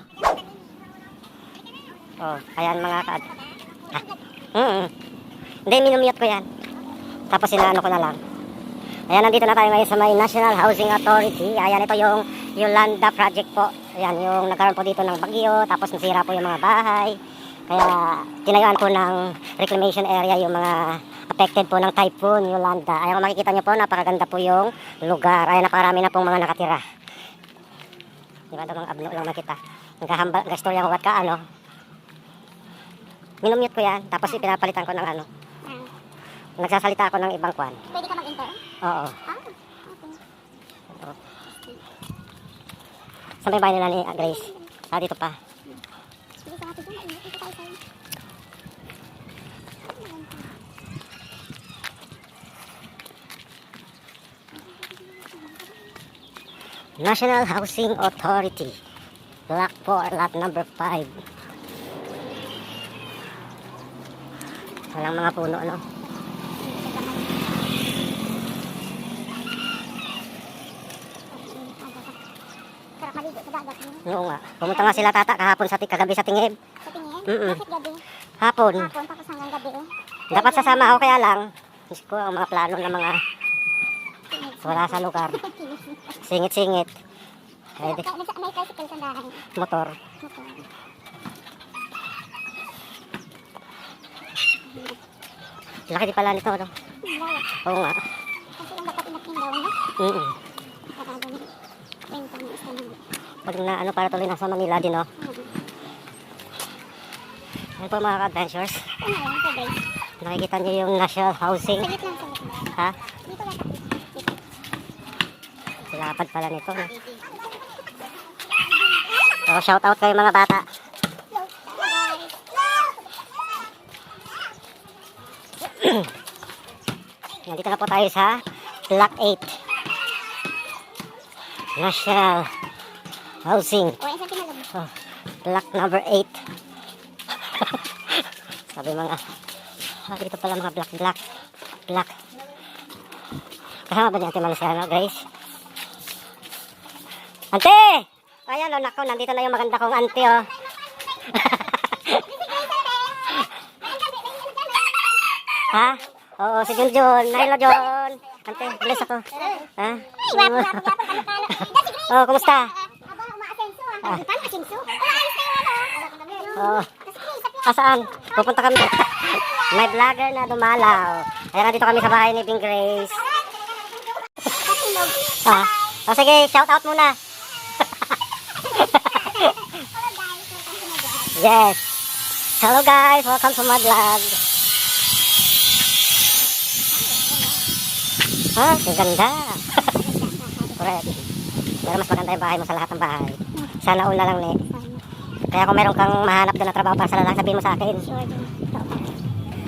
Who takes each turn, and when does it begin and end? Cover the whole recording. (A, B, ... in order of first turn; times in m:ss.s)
0:02.2-0:03.3 A
0:03.3-0:04.2 B
0:04.5-0:04.9 A
0:05.7-0:06.5 A
0:07.3-0:08.2 A
0:09.1-0:26.8 A
0:28.5-0:31.4 A
0:33.4-0:35.3 A
0:35.6-0:35.9 B
0:36.6-0:37.8 A
0:37.9-0:38.6 B
0:38.8-0:39.2 A
0:39.3-0:40.2 B
0:43.4-0:45.4 A
0:44.2-0:44.7 B
0:46.4-0:47.8 B
0:49.8-0:50.6 B
0:57.0-0:58.8 A
0:59.5-1:01.2 A
1:04.9-1:05.8 A
1:06.6-1:07.5 B
1:11.3-1:12.2 B
1:13.0-1:14.1 B
1:14.0-1:16.6 A
1:14.7-1:15.1 B
1:16.8-1:18.0 B
1:17.3-1:17.6 A
1:18.4-1:18.9 A
1:18.8-1:21.1 B
1:20.3-1:23.2 A
1:24.3-1:26.1 B
1:24.6-1:25.4 A
1:26.1-1:27.0 A
1:27.8-1:28.1 A
1:27.8-1:29.5 B
1:29.5-1:30.0 A
1:30.2-1:30.7 B
1:34.7-1:35.0 B
1:35.9-1:36.7 A
1:37.0-1:37.5 B
1:37.6-1:38.0 A
1:38.6-1:39.8 B
1:40.0-1:40.4 A
1:41.0-1:41.5 B
1:42.1-1:43.0 B
1:43.5-1:45.1 A
1:45.2-1:45.5 B
1:47.8-1:48.9 A
1:49.0-1:49.8 B
1:50.2-1:51.9 A
1:51.7-1:54.4 B
1:52.7-1:53.1 A
1:55.9-1:57.0 A
1:59.4-2:00.7 A
2:01.3-2:02.9 B
2:05.6-2:06.1 A
2:07.5-2:09.6 A
2:11.8-2:12.6 A
2:13.4-2:14.0 A
2:14.0-2:14.7 B
2:15.4-2:16.4 A
2:17.5-2:17.8 A
2:18.7-2:19.2 A
2:20.0-2:21.2 A
2:21.9-2:22.2 A
2:23.9-2:25.3 A
2:27.5-2:30.5 A
2:31.3-2:32.3 A
2:32.5-2:33.4 B
2:33.9-2:35.0 B
2:35.6-2:42.8 A
2:38.8-2:47.7 B
2:46.5-2:46.9 A
2:47.6-2:53.3 A
2:54.4-2:55.4 B
2:55.3-2:57.2 A
2:58.7-2:59.5 A
2:59.1-3:01.4 B
3:01.3-3:01.9 A
3:02.6-3:04.4 A
3:06.9-3:07.6 B
3:08.6-3:09.9 A
3:09.9-3:10.8 B
3:10.8-3:11.3 A
3:11.8-3:14.7 A
3:14.7-3:15.0 B
3:15.5-3:18.1 A
3:18.0-3:19.2 B